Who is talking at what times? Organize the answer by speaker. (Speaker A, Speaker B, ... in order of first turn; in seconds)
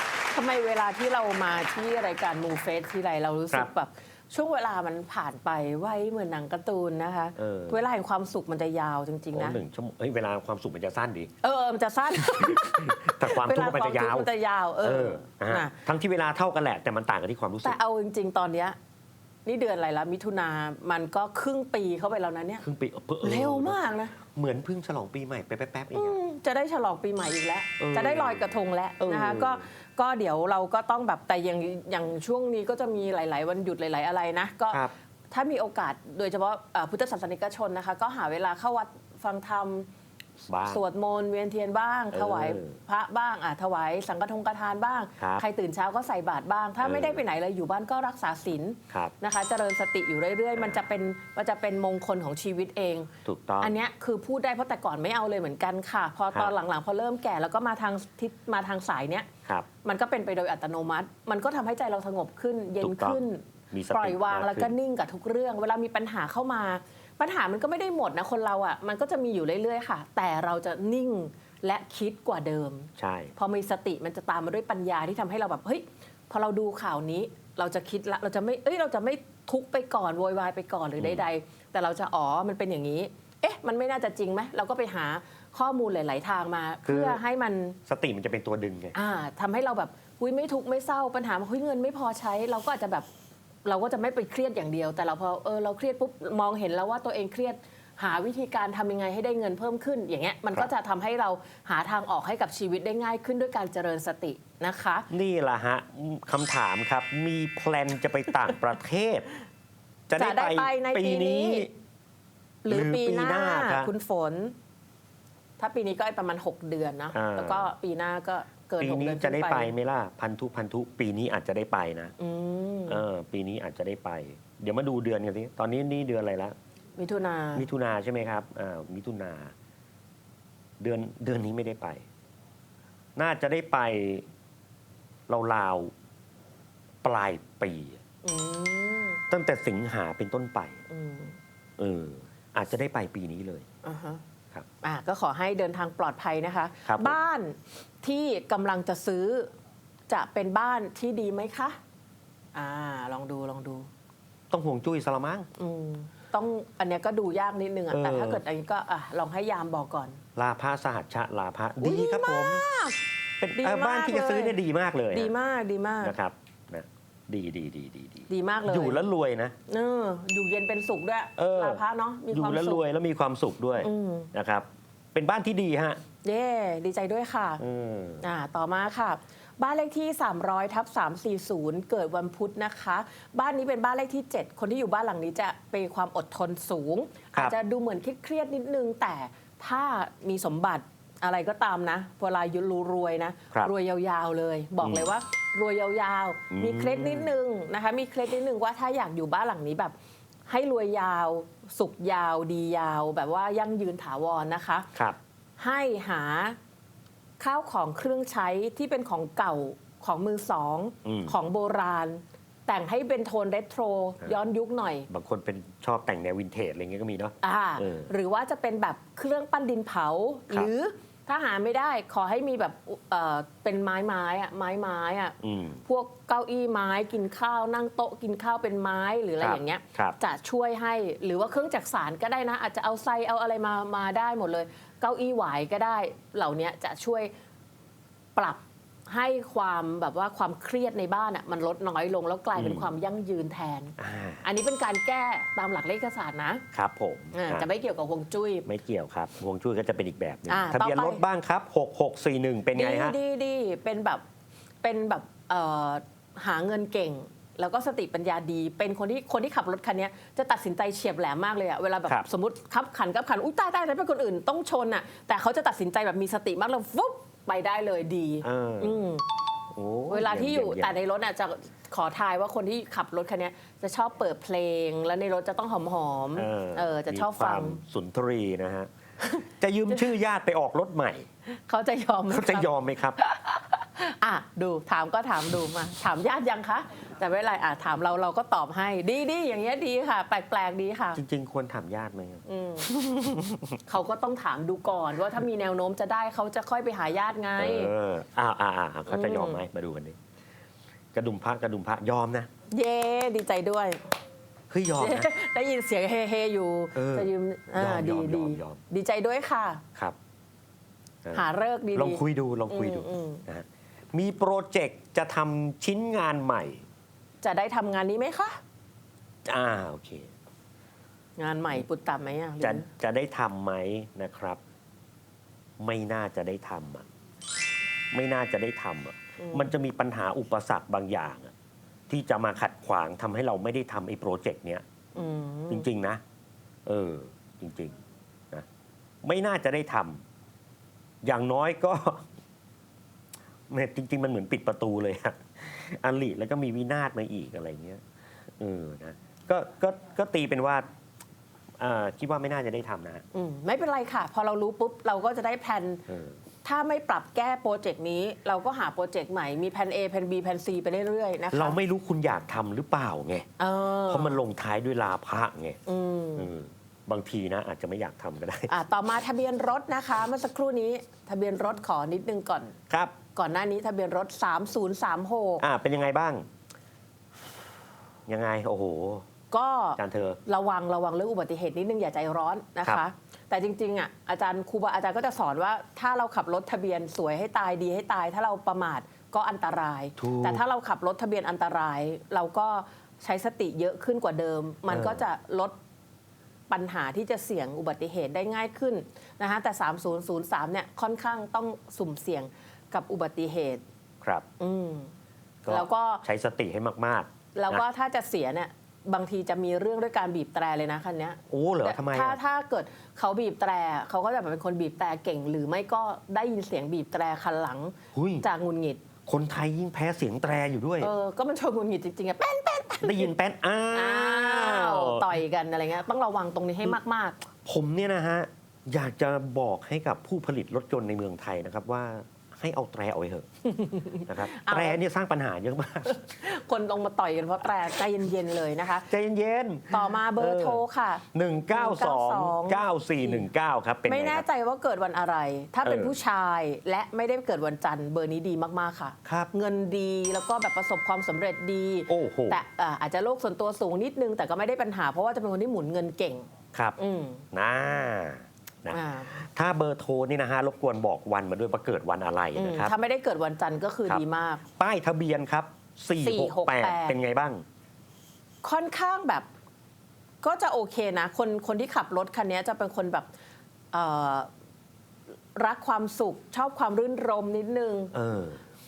Speaker A: 0.3-9.6, 11.4-15.7, 17.6-18.8, 19.4-22.6, 23.2-24.1, 25.9-39.9, 40.6-59.3, 59.8-87.8, 88.9-93.1, 93.6-105.1, 110.2-111.7, 112.6-114.5, 115.6-119.7, 122.2-123.0, 127.0-127.7, 138.2-139.2, 140.9-141.4, 143.8-144.2, 144.8-149.5, 150.1-151.8, 152.5-153.9, 155.6-160.2, 161.8-163.0, 163.6-164.6, 165.1-166.1, 168.3-169.0, 169.7-172.8, 173.8-174.3, 176.2-177.6, 178.2-199.9, 200.5-204.9, 205.6-206.6, 207.4-215.1, 217.4-237.3, 238.3-246.6, 247.3-248.7, 250.5-251.2, 252.7-254.2, 254.8-269.2, 270.1-277.8, 281.4-291.2, 292.5-292.9, 293.9-297.9, 299.1-299.6, 302.7-304.0, 305.0-309.8, 311.3-313.4, 317.4-318.6, 321.4-322.9, 329.4-329.7, 335.1-335.9, 353.3-356.0, 356.6-361.8, 363.6-364.4, 365.9-366.5, 368.7-372.8, 373.3-375.6, 379.5-395.7, 396.7-403.8, 404.6-405.1, 405.7-406.2, 407.5-419.0, 421.0-423.3, 423.9-427.4, 433.6-435.0, 436.1-439.1, 439.9-443.5, 444.1-457.4, 458.9-459.4, 462.6-464.6, 466.2-467.2, 468.6-469.5, 470.4-473.3, 473.9-474.5, 475.5-478.1
Speaker B: 7.4-7.8, 9.3-11.3, 12.2-14.3, 14.8-17.8, 22.6-26.2, 27.8-29.6, 40.5-40.8, 42.1-42.8, 45.2-45.4, 46.8-47.2, 53.2-53.7, 62.8-64.7, 73.0-73.3, 81.0-81.2, 86.8-87.2, 87.9-89.0, 105.1-109.2, 110.1-111.7, 112.7-113.9, 117.1-117.7, 118.8-122.1, 122.9-126.5, 127.5-129.5, 130.8-132.0, 133.2-134.3, 135.3-135.9, 137.0-138.0, 139.3-140.8, 141.8-143.7, 146.8-147.2, 154.5-155.5, 157.9-158.4, 160.3-162.6, 163.4-165.3, 166.0-169.5, 171.4-176.0, 177.6-178.2, 194.8-195.1, 196.5-197.3, 211.0-211.3, 215.1-218.1, 225.4-225.8, 229.4-230.2, 242.6-242.9, 244.0-244.4, 246.7-247.7, 248.7-253.2, 268.4-269.1, 269.7-271.0, 276.4-278.9, 279.4-281.3, 282.3-283.2, 291.1-293.8, 297.6-300.2, 301.1-302.5, 304.7-305.3, 306.9-308.8, 311.2-316.8, 319.5-320.3, 322.6-324.6, 325.8-327.1, 328.1-331.5, 332.1-334.8, 335.7-336.2, 336.9-337.9, 339.2-340.2, 341.2-342.2, 343.7-348.0, 348.6-350.8, 351.8-353.2, 356.1-356.4, 361.5-363.5, 364.1-365.8, 366.4-368.7, 372.9-373.1, 375.6-376.4, 378.3-379.2, 380.0-380.4, 390.2-390.6, 394.9-395.2, 405.6-407.8, 411.5-412.4, 418.1-418.4, 419.2-421.1, 423.0-425.4, 427.6-433.4, 434.2-436.2, 439.1-440.8, 441.3-444.4, 445.8-446.1, 449.2-449.5, 452.1-452.6, 457.5-462.9, 464.8-467.6, 478.1-478.6